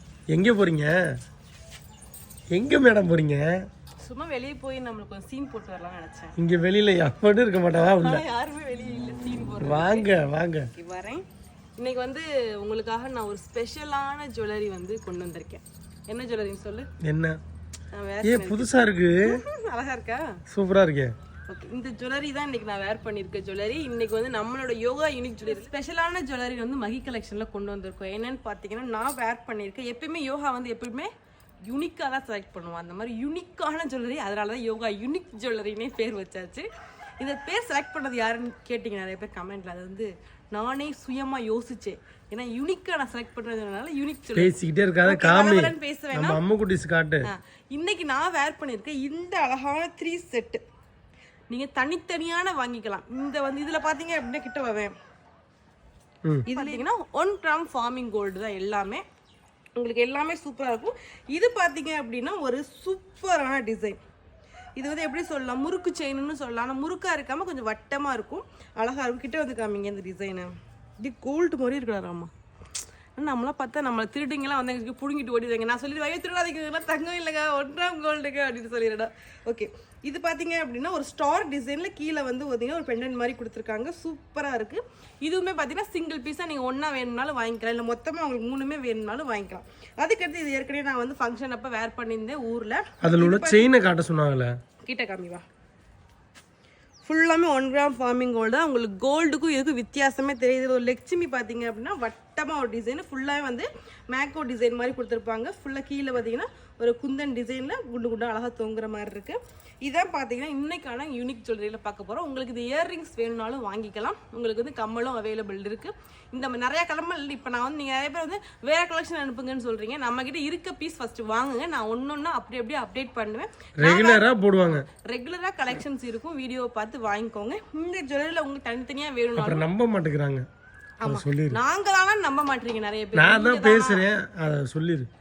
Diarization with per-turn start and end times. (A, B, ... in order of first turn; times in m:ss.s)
0:00.3-0:01.0 A
0:02.5-0:03.6 A
0:04.0-0:06.4 B
0:06.4-0:08.2 A
0:08.0-0:10.1 B
0:09.6-0:10.7 A
0:10.7-0:11.2 B
0:11.8-0:16.9 B
0:17.0-0:17.4 A
0:17.9-0:18.7 B
0:18.2-0:19.4 A
0:19.3-0:20.3 B
0:20.5-0:21.1 A
0:21.5-0:31.1 B
0:31.6-0:36.7 B
0:37.2-0:46.4 B
0:44.4-0:47.3 A
0:47.2-0:50.6 B
0:51.5-0:54.9 B
0:56.5-0:59.0 B
0:59.8-1:04.0 B
1:04.8-1:12.3 B
1:13.2-1:33.7 B
1:33.0-1:34.6 A
1:34.8-1:35.4 B
1:37.1-2:04.2 B
2:03.8-2:04.9 A
2:05.0-2:09.7 B
2:09.4-2:10.5 A
2:11.0-2:14.1 B
2:11.0-2:11.6 A
2:13.2-2:15.1 A